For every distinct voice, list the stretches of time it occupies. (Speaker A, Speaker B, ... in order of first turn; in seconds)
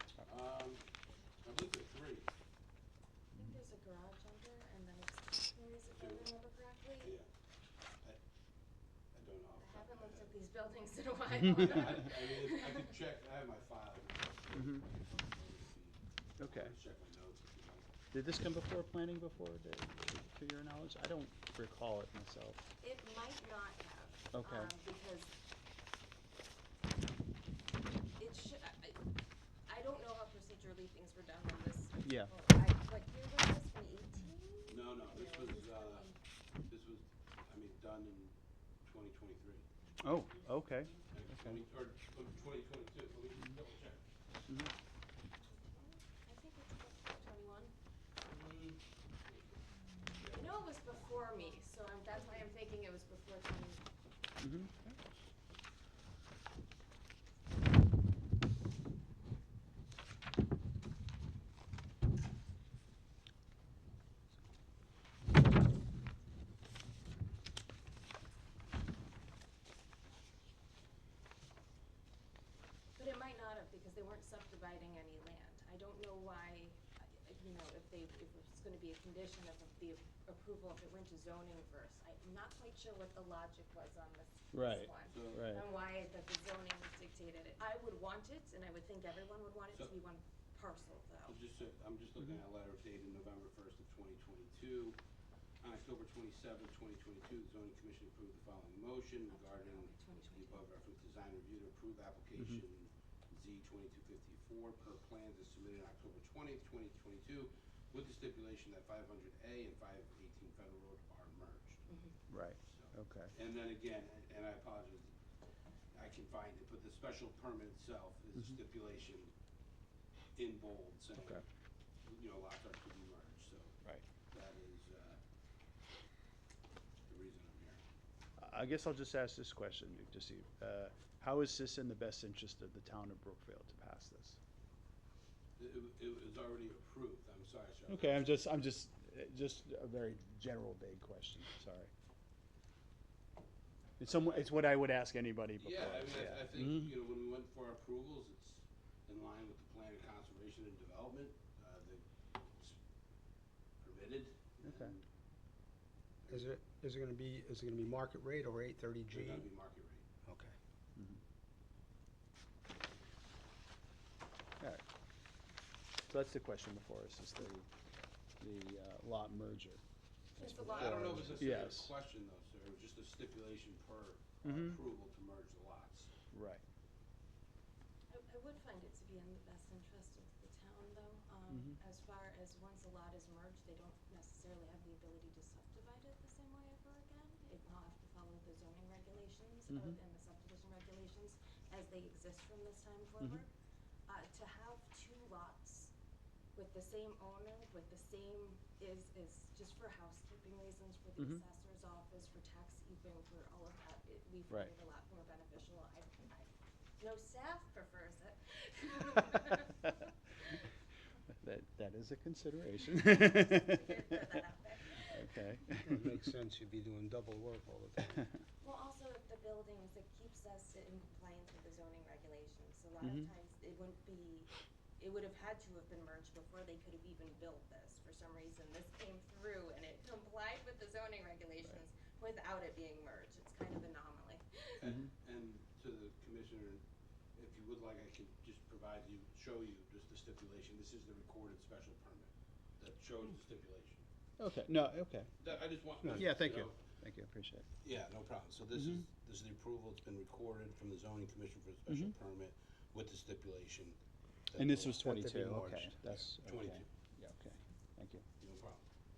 Speaker A: 0.2-0.9, 1.4-2.3, 5.9-6.3, 7.0-7.3, 9.1-10.3, 11.4-17.9, 34.7-36.1, 36.7-39.6, 41.1-44.0, 48.3-49.6, 50.2-50.5, 85.1-85.6, 91.3-95.0, 95.6-111.8, 112.6-115.1, 115.9-119.3, 120.4-121.4, 122.0-123.8, 124.3-125.2, 127.1-127.8, 135.6-138.3, 144.0-144.5, 145.6-152.8, 153.8-155.1, 159.1-160.0, 170.7-176.1, 234.8-236.8, 237.3-244.0, 245.4-246.8, 247.8-254.0, 254.5-255.3, 256.1-256.9, 258.4-258.8
Speaker B: 3.3-7.1, 9.6-12.9, 22.8-25.3, 28.2-29.0, 29.7-36.2, 45.6-47.7, 50.3-53.8, 73.0-91.4, 99.3-100.6, 111.9-112.2, 170.4-171.4, 178.1-193.5, 194.1-195.9, 196.6-206.5, 207.0-210.6, 212.9-215.4, 218.6-234.9
Speaker C: 14.6-14.8, 16.4-16.8, 18.1-22.6, 24.3-24.7, 32.0-32.3, 40.0-41.5, 54.4-54.7, 84.5-85.6, 112.3-113.3, 128.4-134.4, 137.9-141.9, 144.0-146.9, 154.6-154.9, 166.1-167.7, 168.4-169.8, 170.4-171.9, 174.4-174.8, 176.3-176.6, 181.5-181.8, 189.7-190.0, 211.4-214.2, 215.1-216.1, 223.0-223.3, 244.4-245.3, 246.1-247.7, 248.8-249.0, 251.9-252.2, 254.6-258.2
Speaker D: 156.3-159.5, 160.3-160.5, 215.8-218.2, 255.0-255.9